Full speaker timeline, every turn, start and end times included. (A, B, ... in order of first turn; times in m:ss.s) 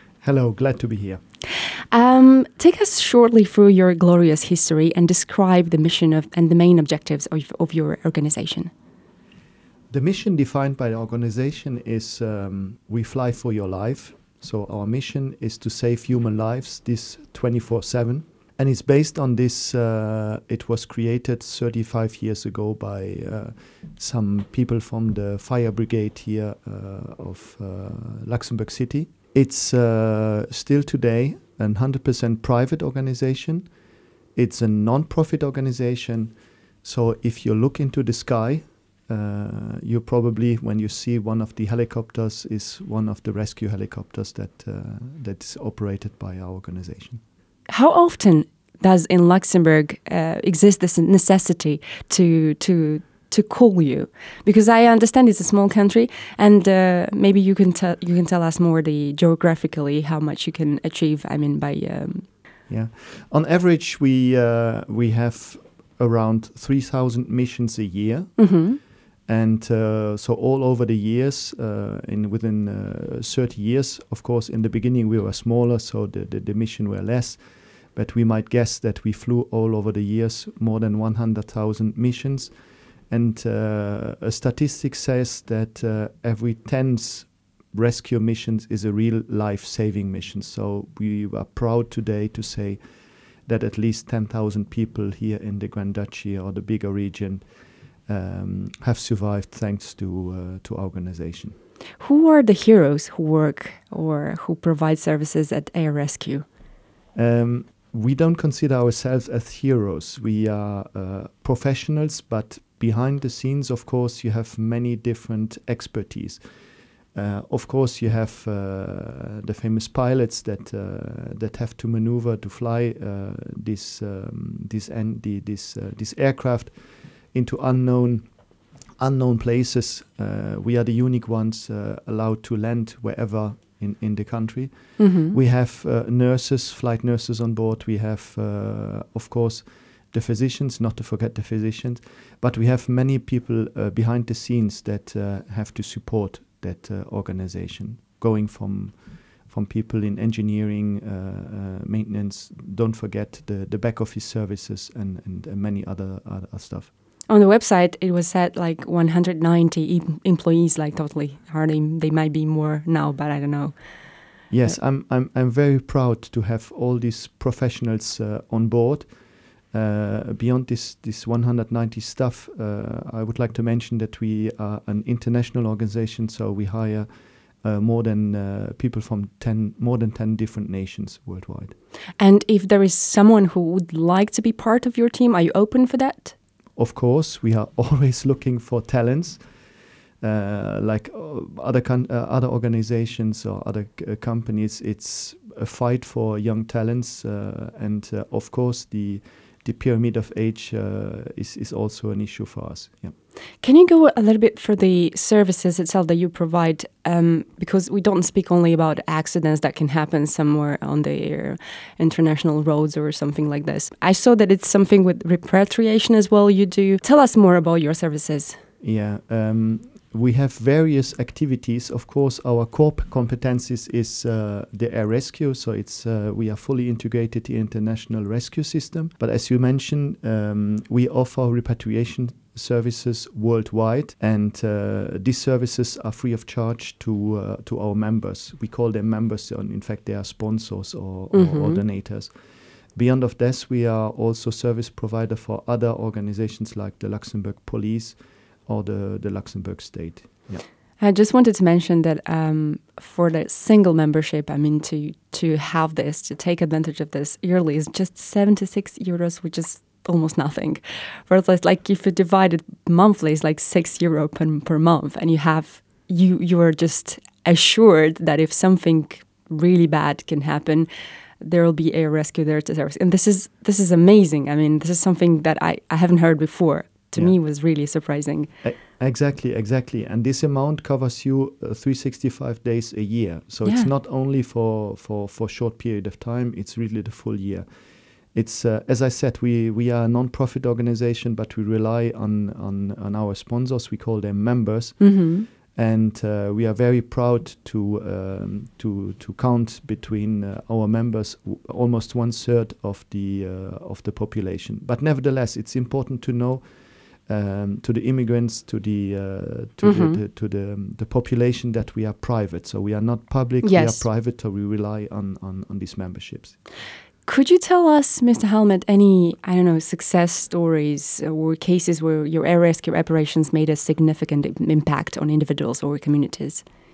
0:00.2-0:01.2 A
0:01.9-0:08.7 B
0:09.9-0:33.7 A
0:34.3-0:47.2 A
0:47.7-1:02.3 B
1:02.7-1:08.6 A
1:08.4-1:08.8 B
1:09.2-1:22.6 A
1:23.1-1:32.8 A
1:33.4-1:37.5 A
1:38.1-1:41.6 A
1:42.0-1:46.4 B
1:47.1-1:56.4 A
1:57.1-2:08.3 A
2:09.0-2:36.9 A
2:15.0-2:15.4 B
2:37.3-2:43.8 B
2:44.5-2:49.1 A
2:49.7-2:57.1 A
2:57.6-3:01.7 A
3:02.2-3:06.3 B
3:06.8-3:09.4 A
3:10.2-3:23.1 A
3:23.6-3:38.6 B
3:38.8-4:02.4 A
4:01.3-4:01.8 B
4:02.9-4:10.6 A
4:11.0-4:30.9 B
4:31.4-4:38.5 B
4:37.1-4:37.4 A
4:38.6-4:47.6 A
4:43.6-4:43.9 B
4:48.3-5:06.6 A
4:55.0-4:55.5 B
5:07.2-5:16.6 A
5:09.8-5:10.2 B
5:13.6-5:14.0 B
5:17.2-5:26.6 B